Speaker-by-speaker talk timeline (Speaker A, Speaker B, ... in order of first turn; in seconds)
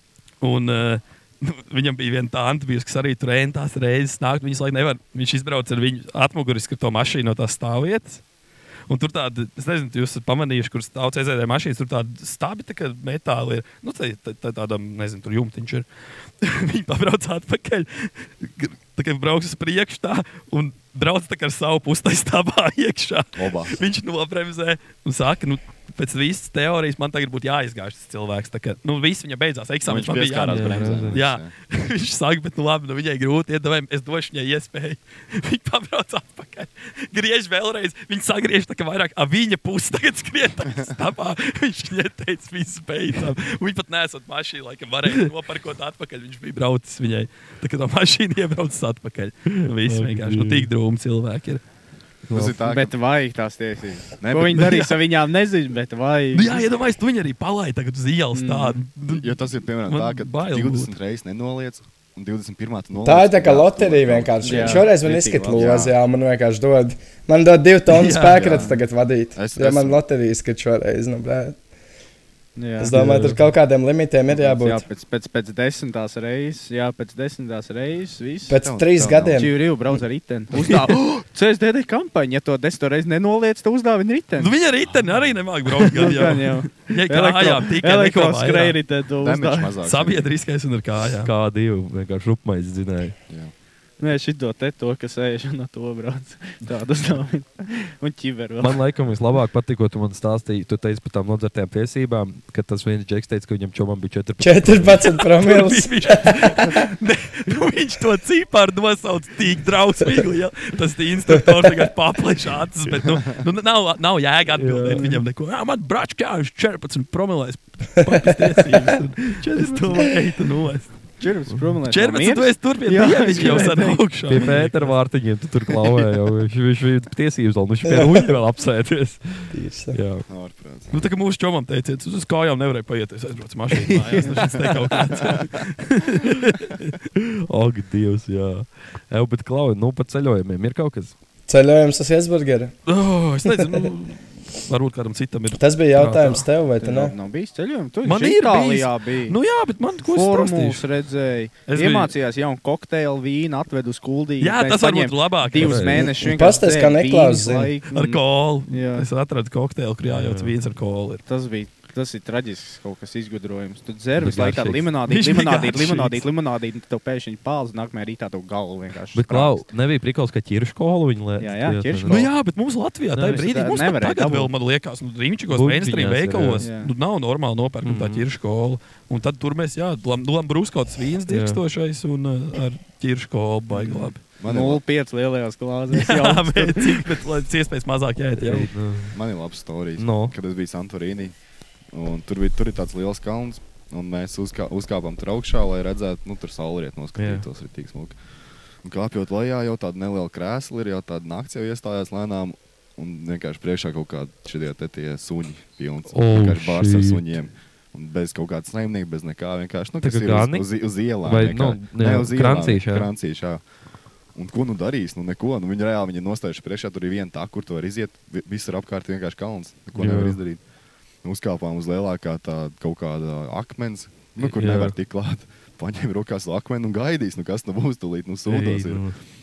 Speaker A: 0.4-8.2, 8.9-15.8, 16.4-51.6, 54.6-54.9, 56.3-60.9, 67.9-68.5, 84.4-88.8, 89.8-91.3, 105.3-120.9, 121.9-124.9, 130.9-136.9, 142.9-145.6, 148.0-150.8, 151.7-152.1, 154.4-155.9, 157.9-161.2, 165.1-166.2, 172.1-184.2, 185.9-188.7
Speaker B: 23.4-23.8, 29.9-31.5, 52.3-52.9, 54.2-54.7, 59.0-64.9, 65.5-65.9, 68.3-68.8, 69.3-70.0, 78.5-79.5, 84.9-85.3, 89.2-90.3, 130.3-131.1, 134.1-135.6, 184.4-184.8, 189.1-191.3, 191.9-198.2, 198.8-213.6, 214.3-220.6, 221.2-229.0
Speaker C: 30.4-31.2, 49.5-50.7, 52.3-52.6, 72.9-73.5, 91.2-93.2, 98.6-105.1, 114.5-115.2, 124.3-130.2, 133.7-134.2, 137.2-141.1, 146.0-146.4, 155.6-156.0, 160.0-160.5, 164.2-164.9, 169.1-172.3, 175.5-176.7, 177.8-178.2, 181.3-181.6, 188.4-189.2, 190.0-190.3, 197.2-197.4, 206.1-207.2, 210.0-210.7, 211.2-213.1, 219.9-220.4, 224.4-224.9, 228.4-229.2
Speaker D: 52.6-56.6, 58.3-58.8, 64.4-65.8, 72.5-72.9, 74.3-78.6, 79.3-84.5, 85.8-89.8, 94.0-98.8, 121.2-124.6, 146.8-149.4, 150.0-159.1, 161.3-169.7, 171.4-172.3, 173.2-174.5, 176.6-176.9, 183.7-187.1
Speaker E: 63.0-71.5, 72.8-74.8, 78.5-79.5, 104.4-106.8, 111.3-111.9, 118.0-119.0, 127.8-128.3, 129.5-130.0, 141.5-142.7, 143.4-143.9, 145.6-147.1, 156.0-157.7